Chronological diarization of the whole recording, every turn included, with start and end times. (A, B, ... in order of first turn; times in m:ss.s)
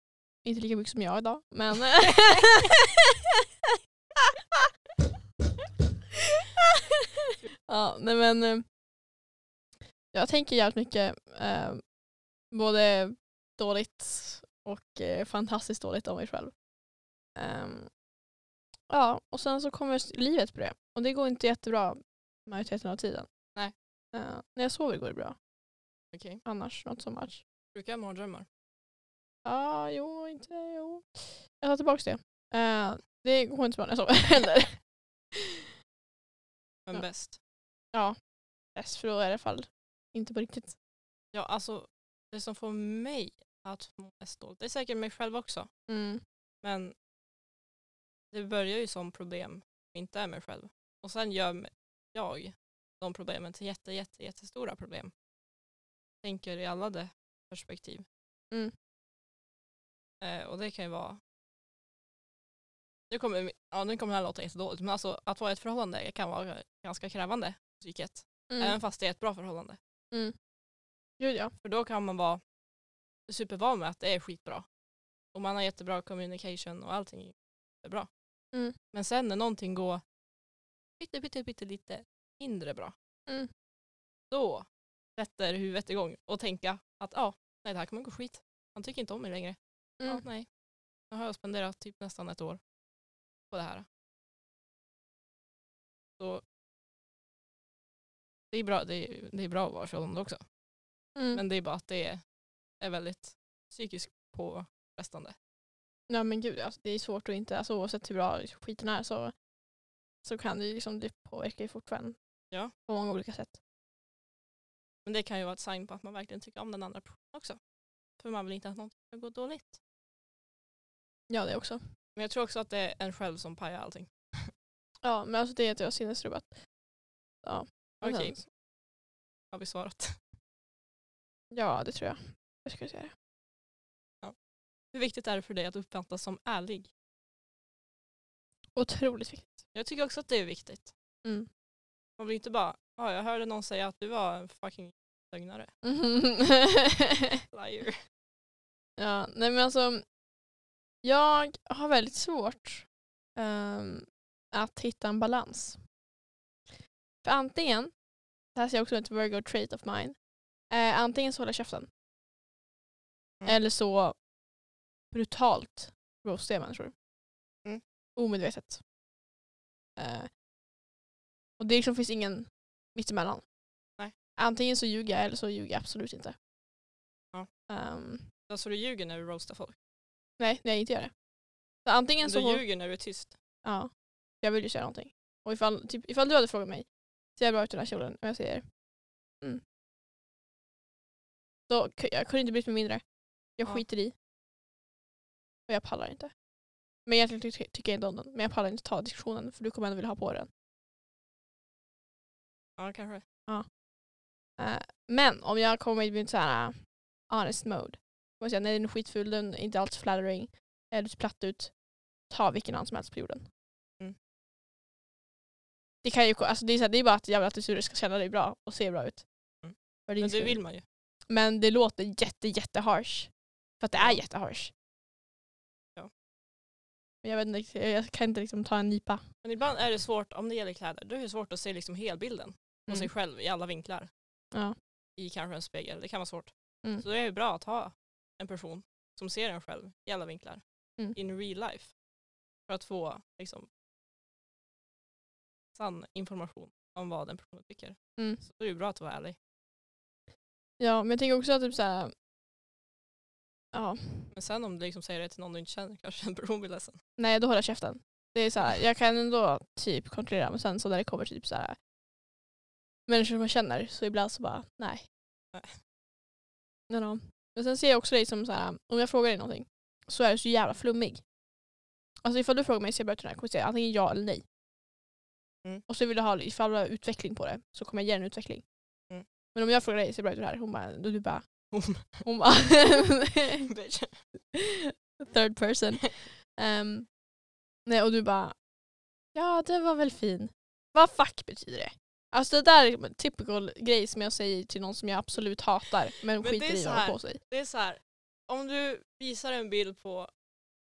0:00.4-0:02.8 A
0:07.7-0:08.6 A
0:10.1-0:11.8 A
0:12.5-0:16.5 A
0:17.4-0:17.9 A
0:18.9-0:23.3 A
0:24.1-0:25.4 A
0:26.1-0:26.4 B
0:26.4-0:27.4 A
0:27.7-0:28.5 B
0:29.4-0:34.8 A
0:36.9-0:37.4 B
0:38.8-0:40.8 A
0:41.3-0:45.7 B
0:45.9-0:46.2 A
0:46.6-0:47.0 B
0:48.3-0:55.1 B
0:56.2-0:58.1 B
1:00.2-1:01.2 B
1:03.1-1:09.8 B
1:08.5-1:08.8 A
1:11.2-1:11.5 A
1:11.6-1:12.4 B
1:13.3-1:14.7 B
1:15.3-1:18.1 B
1:18.9-1:20.0 B
1:21.0-1:22.9 B
1:24.3-1:24.7 B
1:25.2-1:30.5 B
1:31.1-1:32.6 B
1:33.5-1:33.9 B
1:36.2-1:36.4 B
1:38.5-1:40.4 B
1:41.2-1:41.4 A
1:41.3-1:42.2 B
1:42.8-1:45.4 B
1:46.1-1:49.3 A
1:50.2-1:52.2 A
1:52.8-1:53.6 A
1:55.0-1:57.6 B
1:58.2-1:59.8 B
2:01.3-2:01.8 A
2:02.2-2:04.5 B
2:05.0-2:06.6 A
2:07.4-2:08.4 A
2:08.0-2:08.5 B
2:09.5-2:10.2 B
2:11.5-2:13.1 A
2:14.9-2:16.9 B
2:18.8-2:19.6 A
2:19.7-2:20.9 B
2:22.2-2:25.7 B
2:25.8-2:27.2 A
2:27.5-2:28.0 B
2:29.0-2:30.0 A
2:31.0-2:35.8 A
2:37.2-2:37.9 A
2:38.5-2:40.2 A
2:40.7-2:41.9 A
2:43.4-2:44.2 A
2:45.1-2:46.9 A
2:48.2-2:48.8 A
2:50.0-2:50.3 A
2:51.6-2:53.5 A
2:54.4-2:56.4 A
2:57.7-2:58.3 A
2:58.5-2:59.8 B
3:00.4-3:01.1 A
3:01.8-3:02.6 A
3:02.2-3:03.4 B
3:03.6-3:03.9 A
3:04.4-3:08.6 A
3:11.7-3:13.0 A
3:13.6-3:14.1 A
3:15.7-3:16.3 A
3:17.1-3:20.5 A
3:22.8-3:23.2 B
3:24.6-3:26.8 A
3:27.3-3:31.7 A
3:32.3-3:33.5 A
3:36.0-3:39.3 A
3:39.6-3:40.8 B
3:40.1-3:40.6 A
3:41.3-3:44.7 A
3:47.2-3:49.2 A
3:49.4-3:54.1 B
3:55.2-4:00.6 B
4:01.2-4:01.9 B
4:02.7-4:03.7 B
4:05.8-4:09.4 B
4:10.8-4:12.1 A
4:13.7-4:14.3 A
4:14.3-4:17.0 B
4:17.2-4:21.8 A
4:23.1-4:25.1 A
4:25.5-4:25.8 B
4:26.9-4:31.2 A
4:32.2-4:34.4 A
4:35.9-4:38.6 A
4:39.6-4:41.5 A
4:41.7-4:42.2 B
4:42.2-4:43.7 A
4:43.6-4:44.2 B
4:44.5-4:47.1 A
4:47.9-4:48.6 A
4:49.4-4:57.4 A
4:56.4-5:00.3 B